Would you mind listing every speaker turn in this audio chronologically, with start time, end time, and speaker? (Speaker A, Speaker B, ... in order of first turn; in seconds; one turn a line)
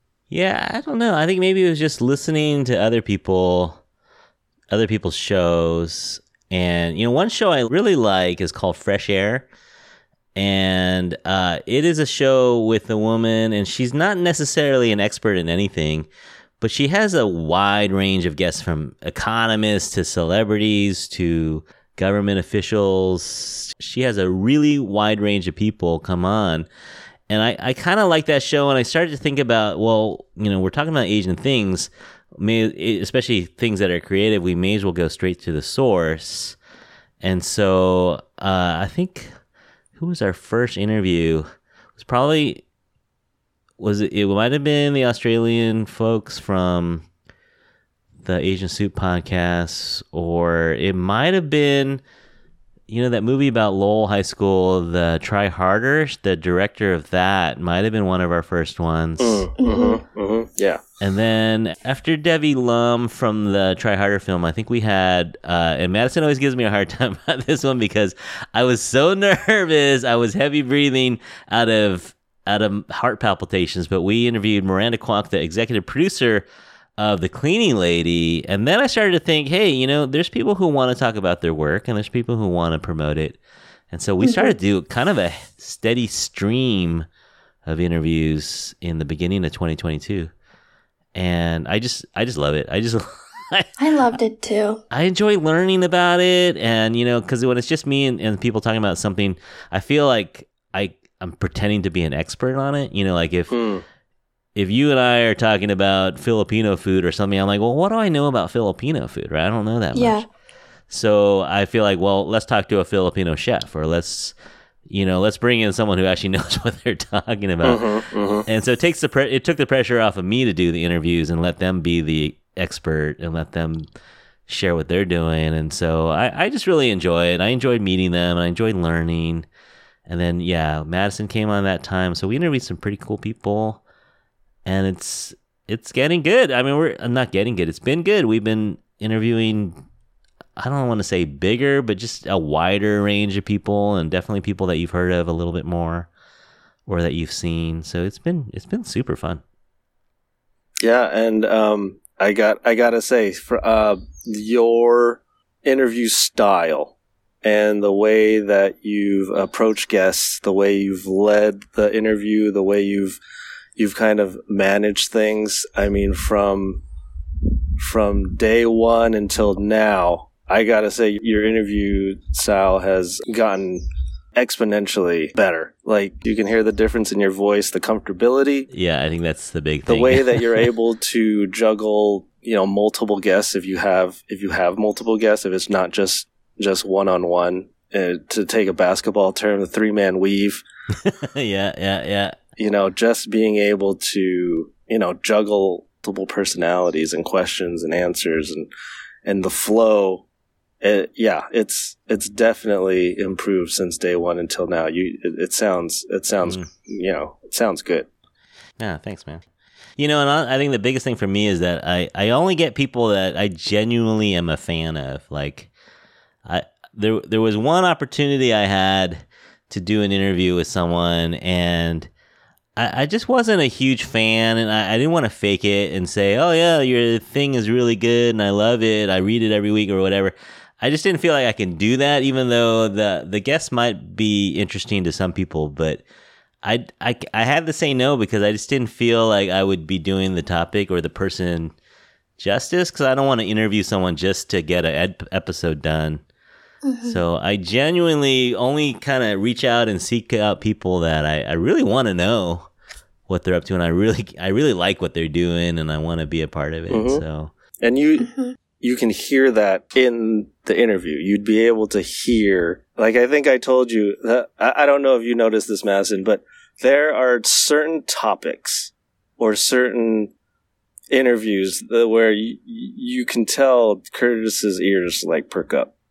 Speaker A: 0.3-3.8
Speaker A: 4.7-9.5
Speaker A: 10.3-16.1
Speaker A: 16.6-26.7
Speaker A: 27.3-36.6
Speaker A: 37.2-39.3
Speaker A: 40.0-41.4
Speaker A: 42.0-42.6
Speaker A: 43.8-47.0
Speaker A: 48.2-52.0
Speaker A: 52.9-59.4
Speaker B: 59.2-60.8
Speaker C: 59.6-60.0
Speaker A: 61.0-76.4
Speaker A: 77.0-83.4
Speaker A: 83.9-87.0
Speaker C: 84.2-84.5
Speaker A: 87.6-90.3
Speaker A: 91.1-94.2
Speaker C: 93.8-94.8
Speaker A: 94.9-103.5
Speaker B: 103.5-103.8
Speaker A: 104.5-110.2
Speaker C: 109.9-110.3
Speaker A: 110.9-114.3
Speaker A: 114.9-123.8
Speaker B: 117.6-118.5
Speaker A: 124.5-129.5
Speaker A: 130.1-133.8
Speaker A: 134.6-139.7
Speaker A: 140.6-146.1
Speaker A: 146.9-149.4
Speaker B: 150.8-163.2
Speaker B: 163.8-166.8
Speaker B: 167.8-173.8
Speaker B: 174.3-178.7
Speaker A: 178.7-180.7
Speaker B: 179.9-190.6
Speaker A: 191.0-192.3
Speaker B: 192.6-198.7
Speaker B: 199.2-200.2
Speaker B: 200.8-208.1
Speaker A: 208.8-209.4
Speaker A: 210.0-215.7
Speaker A: 216.4-222.1
Speaker A: 222.8-236.0
Speaker A: 236.6-241.7
Speaker A: 242.4-246.2
Speaker C: 246.8-247.2
Speaker A: 247.0-252.7
Speaker A: 253.3-257.5
Speaker B: 256.9-257.2
Speaker B: 257.8-270.3
Speaker C: 258.2-258.6
Speaker B: 271.1-275.9